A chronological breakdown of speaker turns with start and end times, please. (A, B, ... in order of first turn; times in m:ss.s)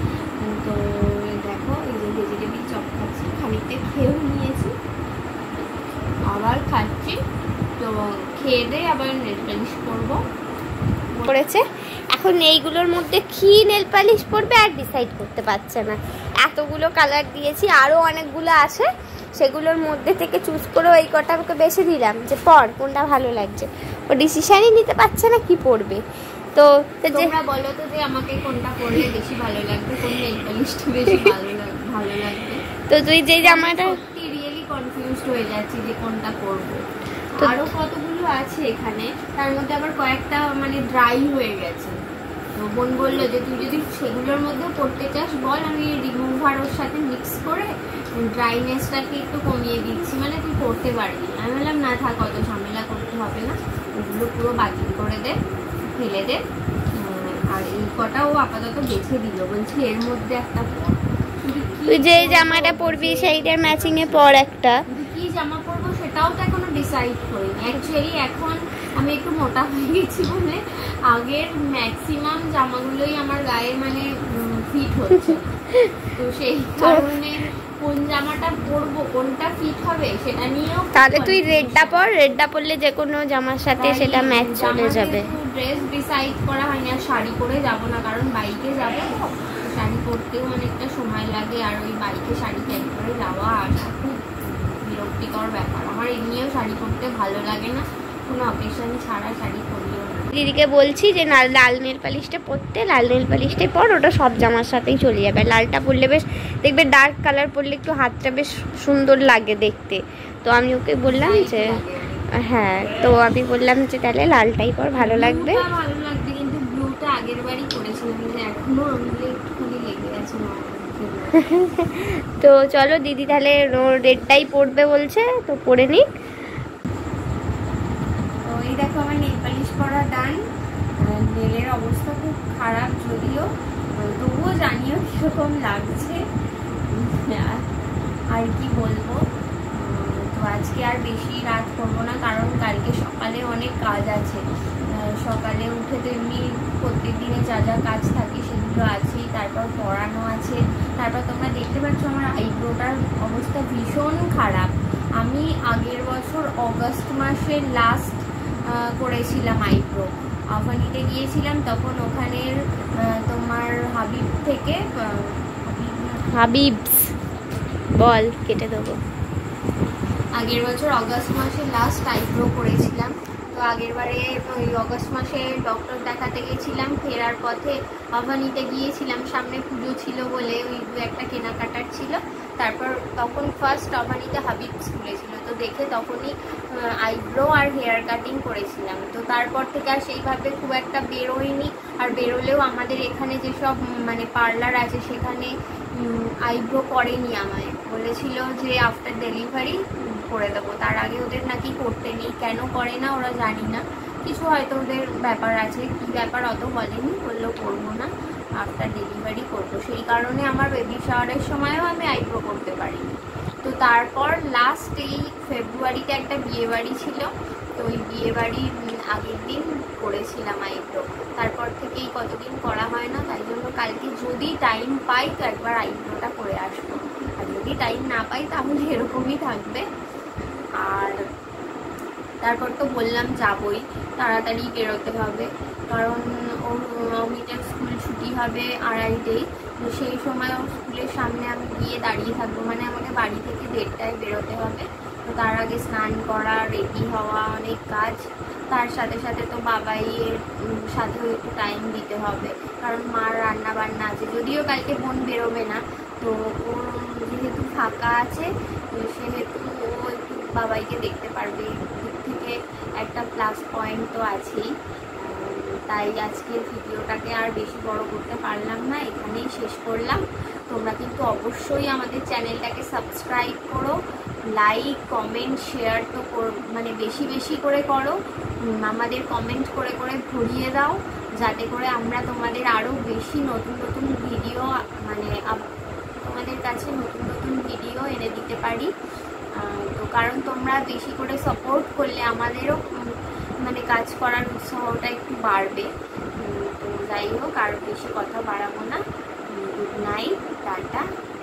0:00.4-0:04.8 A
0:06.3-0:07.2 A
0:07.8-0:10.2 A
0:11.3-0:26.0 B
0:26.5-0:27.3 B
0:27.1-0:32.7 A
0:32.9-0:34.0 B
0:33.4-0:36.8 A
0:37.4-0:37.6 B
0:37.4-0:42.0 A
0:42.6-0:55.4 A
0:55.9-0:56.4 A
0:56.9-1:04.3 A
1:01.9-1:04.8 B
1:04.9-1:15.5 A
1:15.3-1:15.9 B
1:16.1-1:22.0 A
1:16.8-1:17.1 B
1:20.9-1:25.3 B
1:23.8-1:40.3 A
1:40.3-1:51.8 B
1:51.0-1:52.3 A
1:52.3-1:55.6 B
1:55.0-2:01.4 A
2:01.4-2:06.1 B
2:08.4-2:10.4 A
2:11.0-2:16.2 A
2:16.9-2:17.6 A
2:18.3-2:46.4 A
2:46.3-2:47.1 B
2:48.0-2:49.0 B
2:50.4-3:49.8 A
3:50.8-3:51.2 A
3:52.4-4:24.6 A
4:25.2-4:33.9 A
4:34.6-4:38.2 A
4:38.8-4:45.6 A
4:46.2-4:48.9 A
4:49.6-4:52.8 A
4:53.6-4:55.9 A
4:56.4-4:59.0 A
4:59.5-5:01.0 A